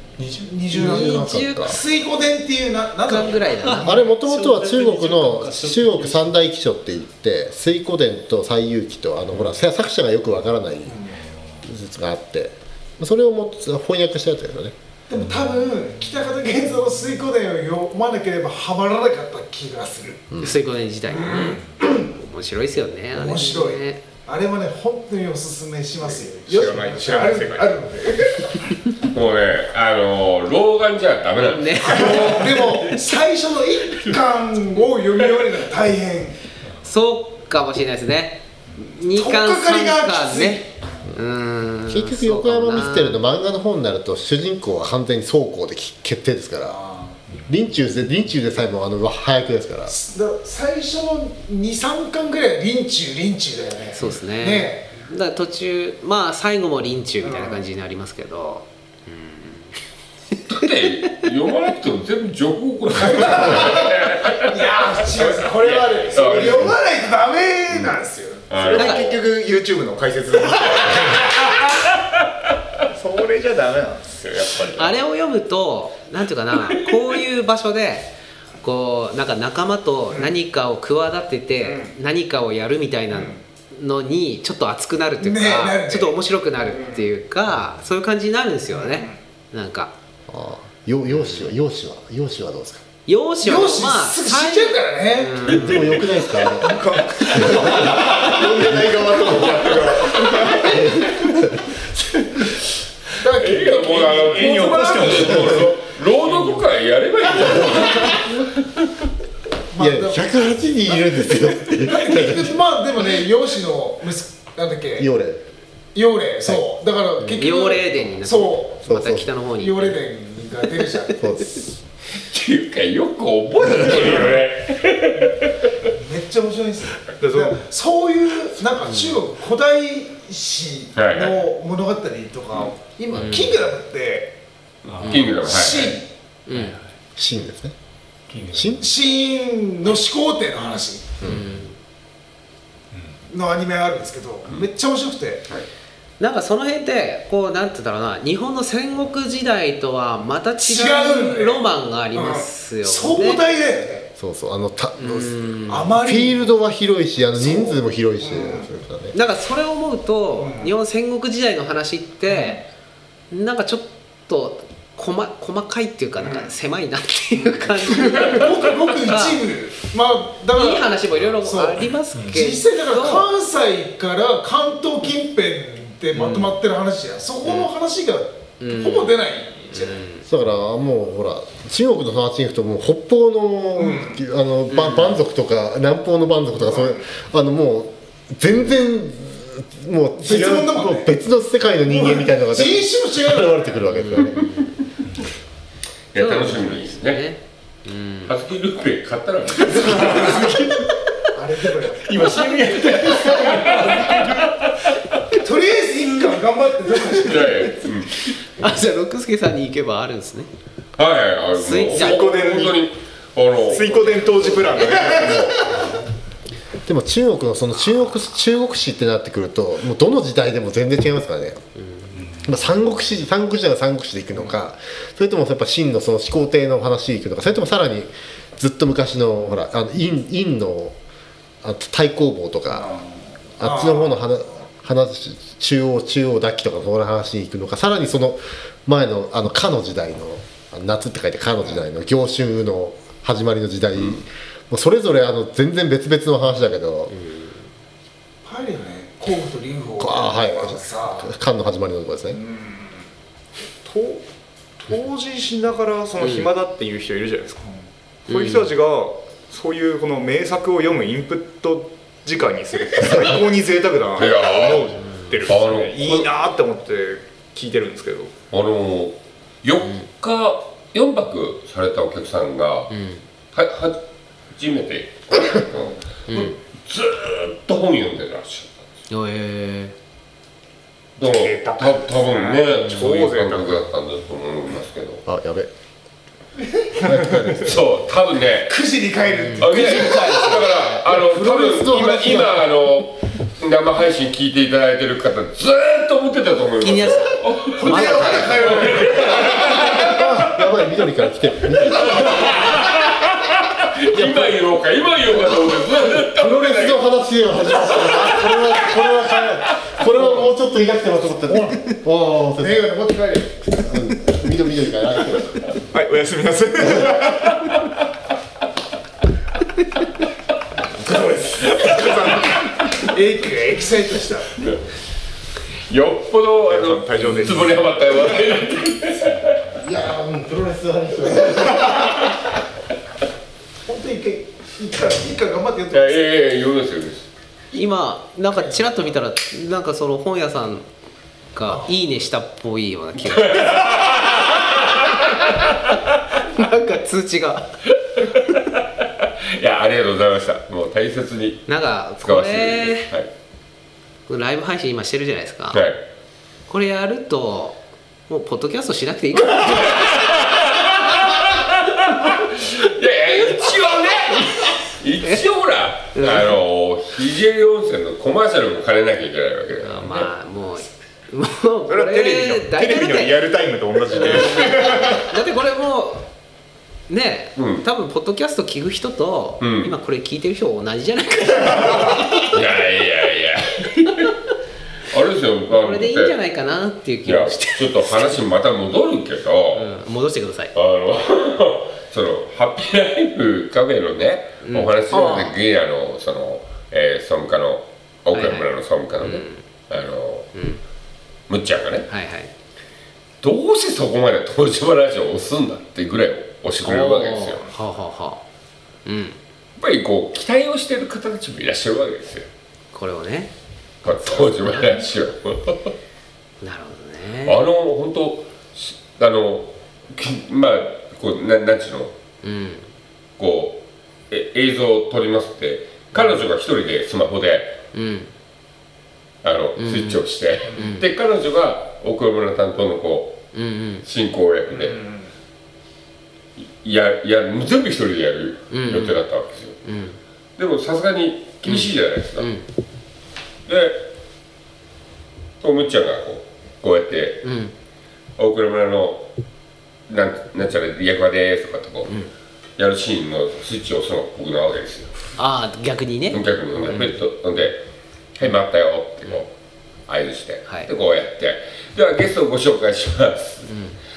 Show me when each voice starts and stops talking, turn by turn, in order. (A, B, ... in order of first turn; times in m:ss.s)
0:00.2-0:00.5 A
0:00.4-0:04.1 B
0:00.7-0:01.8 C
0:00.7-0:01.8 D
0:03.0-0:04.1 C
0:03.8-0:11.0 D
0:04.1-0:06.3 A
0:11.6-0:14.7 D
0:15.1-0:20.2 B
0:20.3-0:20.6 D
0:20.4-0:24.0 C
0:21.1-0:22.0 B
0:23.1-0:28.6 B
0:26.0-0:27.8 E
0:29.0-0:32.5 F
0:31.4-0:33.0 C
0:31.8-0:36.4 B
0:36.8-0:43.2 C
0:39.1-0:40.6 B
0:41.9-0:46.8 D
0:46.6-0:47.2 B
0:47.5-0:49.9 D
0:49.9-0:54.9 B
0:53.9-0:59.8 C
0:57.2-0:57.6 B
1:00.5-1:06.8 F
1:03.0-1:08.5 B
1:06.1-1:06.6 E
1:08.5-1:09.1 F
1:08.6-1:11.3 E
1:08.7-1:09.2 C
1:12.9-1:14.2 E
1:14.2-1:15.0 F
1:14.7-1:29.9 C
1:21.6-1:21.9 E
1:25.2-1:26.2 B
1:28.7-1:29.1 B
1:30.3-1:32.8 D
1:31.1-1:31.5 C
1:33.0-1:36.1 C
1:33.4-1:35.7 B
1:35.4-1:36.8 D
1:35.4-1:36.1 F
1:36.4-1:37.3 B
1:36.6-1:40.8 E
1:37.3-1:37.9 D
1:38.6-1:39.5 D
1:40.6-1:41.8 D
1:43.2-1:44.6 B
1:43.3-1:48.5 F
1:44.1-1:45.8 E
1:49.7-1:50.3 B
1:49.8-1:52.5 D
1:51.7-1:55.1 B
1:55.0-1:55.4 D
1:55.9-1:58.8 B
1:57.2-1:57.4 D
1:57.4-2:00.0 C
1:58.8-1:59.3 D
1:59.6-2:01.2 B
2:01.2-2:01.7 D
2:02.3-2:05.7 F
2:03.7-2:04.5 B
2:05.9-2:14.3 B
2:07.1-2:07.6 E
2:08.9-2:09.2 C
2:10.9-2:11.4 F
2:13.1-2:13.6 C
2:14.8-2:15.3 A
2:14.9-2:16.0 F
2:15.0-2:15.3 C
2:15.1-2:16.1 B
2:16.5-2:16.8 C
2:17.2-2:17.7 D
2:18.3-2:18.7 A
2:18.4-2:18.9 D
2:18.8-2:21.1 B
2:21.2-2:21.4 D
2:21.2-2:21.8 C
2:23.3-2:25.4 B
2:26.2-2:33.4 C
2:30.6-2:34.1 B
2:34.2-2:39.2 D
2:35.0-2:36.0 C
2:35.7-2:36.5 B
2:37.4-2:38.7 B
2:39.1-2:42.6 C
2:40.4-2:40.7 B
2:42.2-2:42.6 B
2:43.3-2:49.4 C
2:46.2-2:46.5 B
2:47.8-3:00.1 B
2:50.5-2:53.3 C
2:56.1-2:56.5 C
2:58.6-2:59.1 C
2:59.8-3:00.2 C
3:00.2-3:14.5 D
3:03.8-3:04.2 B
3:04.7-3:05.2 C
3:06.6-3:07.0 B
3:10.2-3:11.1 B
3:11.8-3:13.8 B
3:14.0-3:14.7 C
3:16.1-3:17.2 F
3:16.2-3:18.3 C
3:18.3-3:20.5 F
3:19.7-3:20.7 B
3:19.8-3:20.7 C
3:21.3-3:24.0 B
3:22.2-3:24.7 F
3:22.7-3:23.8 A
3:25.4-3:27.7 B
3:27.2-3:28.1 F
3:28.3-3:30.5 C
3:31.0-3:34.5 F
3:31.6-3:32.7 C
3:31.9-3:32.9 E
3:33.6-3:35.6 E
3:33.7-3:35.0 C
3:34.9-3:35.9 B
3:36.8-3:41.6 D
3:42.4-3:51.0 D
3:51.6-3:52.9 D
3:53.6-4:07.1 D
3:53.6-3:54.2 B
4:03.9-4:04.2 F
4:07.1-4:07.6 C
4:08.4-4:11.3 B
4:10.0-4:12.4 D
4:12.3-4:12.6 B
4:13.8-4:14.2 E
4:14.8-4:28.3 E
4:16.2-4:16.5 C
4:18.3-4:18.7 C
4:24.2-4:26.5 F
4:28.5-4:32.9 F
4:32.9-4:33.2 C
4:33.5-4:34.0 F
4:34.5-4:38.7 F
4:36.3-4:36.5 C
4:39.1-4:39.9 C
4:41.2-4:43.9 E
4:41.2-4:45.2 F
4:45.2-4:45.7 D
4:47.0-4:47.7 D
4:47.6-4:48.8 F
4:48.7-4:50.9 B
4:49.4-4:49.8 C
4:49.6-5:00.5 F
4:51.0-4:52.7 D
4:56.8-4:58.8 C
4:57.8-5:00.4 B
4:59.5-5:02.8 D
5:01.8-5:07.1 F
5:06.2-5:12.9 D
5:07.7-5:10.5 F
5:12.6-5:13.7 B
5:13.8-5:15.6 D
5:15.9-5:17.6 E
5:21.1-5:22.1 B
5:21.2-5:22.6 F
5:21.8-5:22.6 E
5:23.0-5:24.5 B
5:25.9-5:29.8 F
5:26.6-5:28.0 E
5:29.8-5:32.3 D
5:33.8-5:36.2 B
5:35.9-5:37.2 F
5:37.7-5:40.9 C
5:38.5-5:38.9 B
5:41.5-5:43.9 C
5:43.3-5:44.6 F
5:46.3-5:47.7 C
5:48.2-5:53.3 F
5:51.7-5:53.1 C
5:54.3-5:55.8 C
5:55.7-5:56.0 F
5:56.7-5:57.8 C
5:58.3-6:00.4 C
6:00.3-6:10.2 F
6:06.1-6:06.6 C
6:09.8-6:13.4 C
6:11.9-6:15.2 E
6:14.1-6:16.2 C
6:17.1-6:22.6 C
6:17.6-6:17.8 F
6:19.6-6:19.9 F
6:22.4-6:24.3 F
6:25.1-6:26.4 F
6:25.7-6:28.4 C
6:27.2-6:29.9 F
6:29.7-6:30.7 C
6:30.7-6:40.5 F
6:34.6-6:35.6 C
6:38.3-6:38.7 C
6:39.2-6:39.6 C
6:40.5-6:40.8 C
6:41.5-6:42.1 F
6:42.1-6:42.5 C
6:43.4-6:47.6 F
6:46.8-6:48.4 C
6:49.0-6:49.4 C
6:49.8-6:52.5 F
6:52.9-6:53.5 C
6:54.0-6:55.9 F
6:54.1-6:55.1 C
6:56.6-6:57.6 C
6:57.4-7:02.1 F
7:02.4-7:02.9 C
7:03.4-7:07.8 F
7:07.9-7:08.3 C
7:09.4-7:13.4 F
7:09.8-7:11.0 C
7:13.5-7:14.0 C
7:14.0-7:15.0 F
7:14.7-7:15.3 E
7:16.6-7:19.8 F
7:18.7-7:19.2 C
7:19.8-7:20.2 C
7:20.6-7:22.5 F
7:21.6-7:22.7 C
7:23.6-7:24.0 F
7:25.6-7:27.4 F
7:27.4-7:27.7 C
7:28.4-7:29.3 F
7:30.1-7:32.1 F
7:32.8-7:35.1 F
7:35.4-7:37.1 C
7:36.3-7:37.8 F
7:38.4-7:39.5 F
7:40.1-7:43.6 F
7:43.6-7:43.9 C